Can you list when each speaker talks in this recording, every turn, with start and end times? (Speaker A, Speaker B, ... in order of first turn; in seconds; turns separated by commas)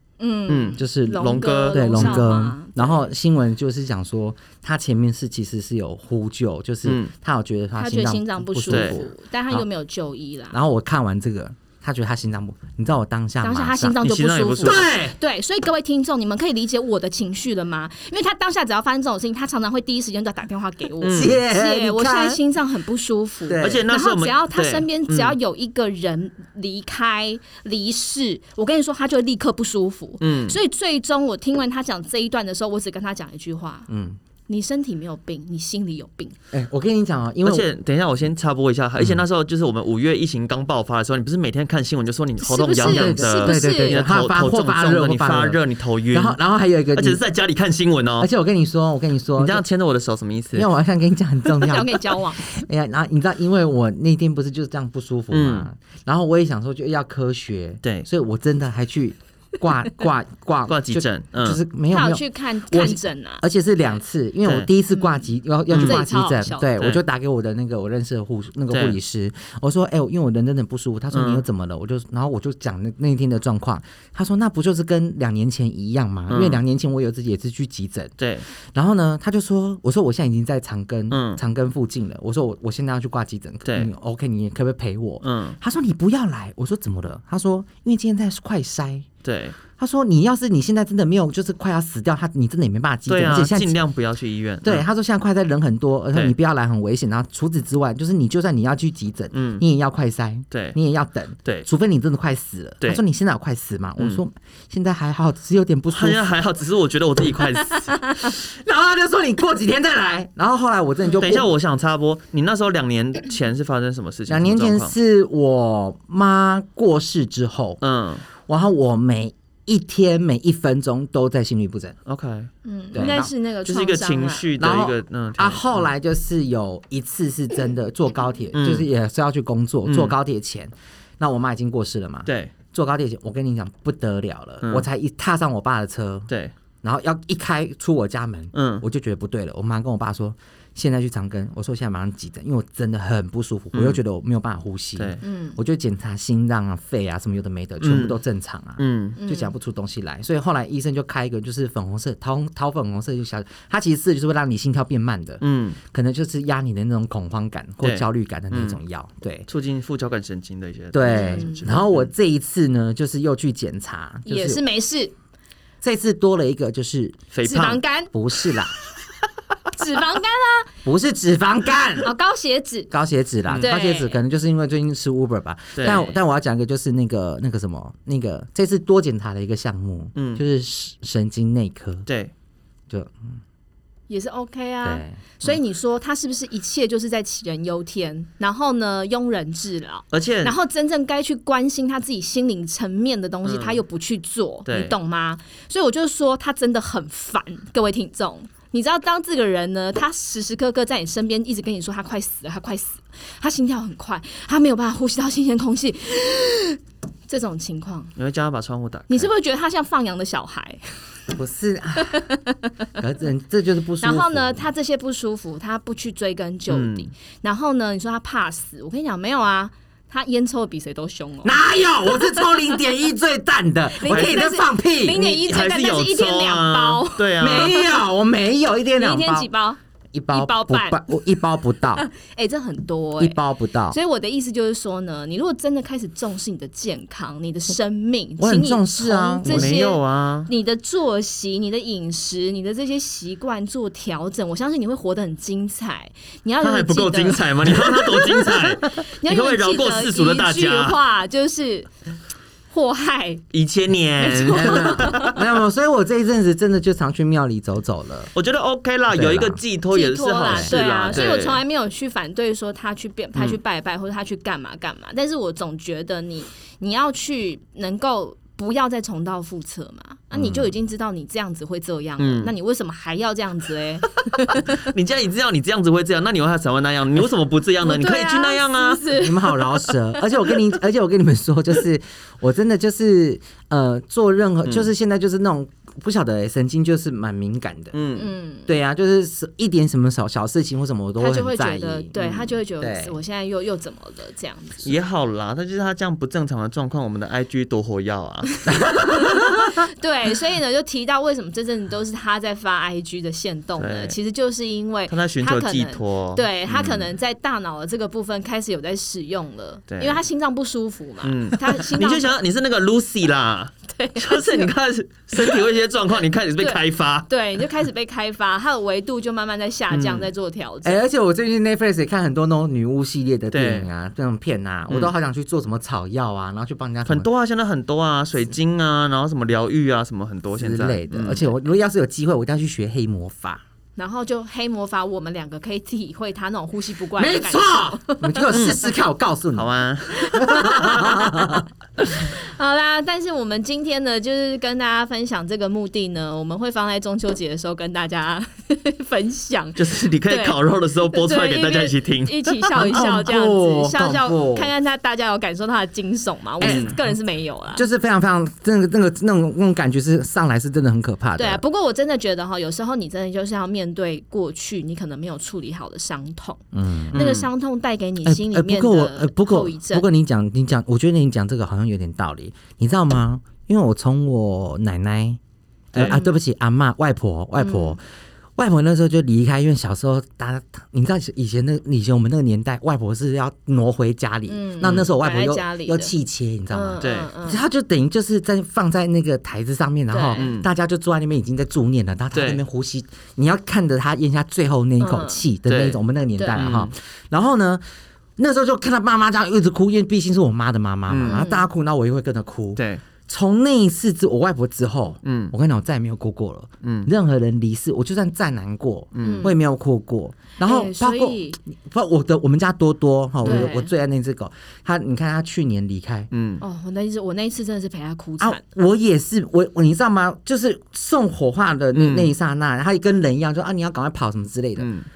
Speaker A: 0.2-3.1, Speaker B: 0.5-2.3, Speaker C: 0.8-9.6, Speaker B: 6.8-7.1, Speaker A: 7.8-10.6, Speaker B: 8.7-9.0, Speaker C: 10.5-14.0, Speaker A: 13.4-33.9, Speaker B: 14.0-14.9, Speaker C: 14.6-15.2, Speaker B: 21.0-21.4, Speaker C: 21.1-22.4, Speaker C: 23.4-23.8, Speaker B: 23.6-25.4, Speaker B: 30.2-30.6, Speaker C: 33.9-34.2, Speaker A: 34.5-36.3, Speaker C: 36.5-37.7, Speaker B: 37.4-46.4, Speaker A: 42.4-44.0, Speaker C: 42.8-45.6, Speaker C: 46.1-47.2, Speaker B: 46.9-48.3, Speaker C: 48.2-49.6, Speaker B: 49.4-50.7, Speaker C: 50.5-78.1, Speaker A: 51.6-52.4, Speaker B: 55.3-55.7, Speaker B: 60.7-61.6, Speaker A: 61.9-63.4, Speaker A: 64.9-66.7, Speaker B: 65.7-66.0, Speaker B: 68.7-69.0, Speaker B: 71.1-71.4, Speaker B: 76.3-76.6, Speaker B: 78.2-78.5, Speaker C: 78.7-89.1, Speaker B: 81.1-81.4, Speaker B: 83.6-83.9, Speaker B: 85.2-85.6, Speaker B: 89.2-89.6, Speaker C: 89.8-93.8, Speaker B: 93.1-94.8, Speaker C: 94.6-106.4, Speaker B: 99.3-99.6, Speaker B: 100.5-100.8, Speaker B: 105.9-108.0, Speaker C: 108.3-111.5, Speaker B: 111.2-114.9, Speaker C: 114.3-117.8, Speaker B: 117.8-118.2, Speaker C: 118.4-122.0, Speaker B: 122.0-125.8, Speaker A: 122.6-124.5, Speaker C: 122.9-123.3, Speaker C: 124.6-136.3, Speaker B: 128.5-128.9, Speaker B: 129.8-130.1, Speaker B: 132.3-132.5, Speaker C: 136.8-159.5, Speaker B: 138.5-138.8, Speaker B: 143.7-144.0, Speaker A: 145.2-145.6, Speaker B: 147.8-148.2, Speaker B: 148.8-149.2, Speaker A: 149.2-149.5, Speaker B: 155.4-155.8, Speaker B: 157.8-158.8, Speaker B: 159.5-162.1, Speaker C: 160.9-164.6, Speaker A: 161.0-161.7, Speaker A: 164.2-165.1, Speaker C: 165.8-167.2, Speaker B: 167.3-167.8, Speaker A: 167.4-168.1, Speaker C: 168.1-168.7, Speaker A: 169.7-170.7, Speaker C: 170.8-172.1, Speaker A: 172.0-172.9, Speaker C: 172.9-182.1, Speaker A: 173.5-174.2, Speaker B: 175.8-176.2, Speaker B: 180.1-180.4, Speaker B: 182.1-182.3, Speaker C: 182.9-183.4, Speaker A: 184.1-208.1, Speaker C: 184.8-185.2, Speaker B: 190.1-190.5, Speaker B: 193.4-193.8, Speaker B: 194.7-194.9, Speaker B: 208.2-209.3, Speaker A: 209.1-210.8, Speaker C: 211.3-212.2, Speaker A: 212.0-212.7, Speaker C: 213.0-214.6, Speaker A: 214.0-222.5, Speaker B: 216.7-217.1, Speaker C: 221.4-225.5, Speaker A: 223.9-228.0, Speaker B: 224.1-224.4, Speaker B: 225.1-227.8, Speaker C: 227.4-229.5, Speaker A: 229.0-229.8, Speaker C: 230.1-232.1, Speaker A: 230.3-231.1, Speaker A: 231.9-251.9, Speaker C: 233.2-234.0, Speaker C: 238.4-239.8, Speaker B: 239.4-240.5, Speaker B: 246.6-251.0, Speaker A: 252.7-253.4, Speaker B: 253.5-255.4, Speaker A: 254.2-255.3, Speaker C: 254.5-258.3, Speaker B: 258.3-261.6, Speaker C: 259.1-259.6, Speaker A: 259.9-274.8, Speaker C: 260.4-261.3, Speaker B: 272.2-272.5, Speaker B: 274.4-279.1, Speaker A: 277.8-280.2, Speaker C: 279.2-288.0, Speaker B: 287.9-288.3, Speaker A: 288.2-288.7, Speaker C: 288.7-292.1, Speaker A: 291.2-294.9, Speaker B: 292.2-292.5, Speaker C: 292.8-293.1, Speaker B: 294.8-298.6, Speaker C: 298.7-299.7, Speaker A: 298.8-312.3, Speaker B: 303.8-304.1, Speaker B: 305.1-307.1, Speaker B: 309.9-310.2, Speaker B: 311.2-317.3, Speaker A: 313.9-314.7, Speaker A: 315.4-315.6, Speaker A: 316.6-321.0, Speaker B: 319.9-320.3, Speaker C: 320.8-327.3, Speaker B: 323.5-323.9, Speaker B: 327.1-331.5, Speaker C: 330.6-333.6, Speaker A: 334.0-338.5, Speaker C: 337.2-339.7, Speaker B: 338.5-338.9, Speaker B: 339.5-341.6, Speaker A: 340.1-341.2, Speaker C: 340.3-341.6, Speaker A: 342.1-357.8, Speaker B: 349.8-353.1, Speaker C: 352.7-354.7, Speaker B: 356.6-356.9, Speaker C: 356.6-357.1, Speaker C: 357.7-361.6, Speaker A: 361.4-370.0, Speaker C: 366.7-367.2, Speaker B: 367.1-367.5, Speaker C: 368.2-375.4, Speaker B: 375.9-376.2, Speaker C: 375.9-378.0, Speaker A: 376.0-376.3, Speaker A: 377.6-378.0, Speaker C: 378.6-397.8, Speaker A: 384.5-386.1, Speaker A: 386.7-387.6, Speaker B: 387.0-387.3, Speaker A: 390.1-390.5, Speaker B: 390.4-390.7, Speaker B: 392.3-392.6, Speaker A: 395.0-395.4, Speaker B: 395.6-396.0, Speaker A: 396.4-396.7, Speaker B: 396.6-396.9, Speaker C: 398.4-416.3, Speaker B: 401.1-401.4, Speaker A: 401.2-401.6, Speaker B: 402.8-403.0, Speaker B: 405.2-405.5, Speaker B: 406.8-407.1, Speaker B: 409.1-409.5, Speaker A: 409.2-409.5, Speaker A: 410.6-411.6, Speaker A: 413.4-413.9, Speaker B: 416.3-416.6, Speaker A: 416.6-418.6, Speaker C: 418.4-424.9, Speaker B: 421.9-422.3, Speaker B: 424.8-425.1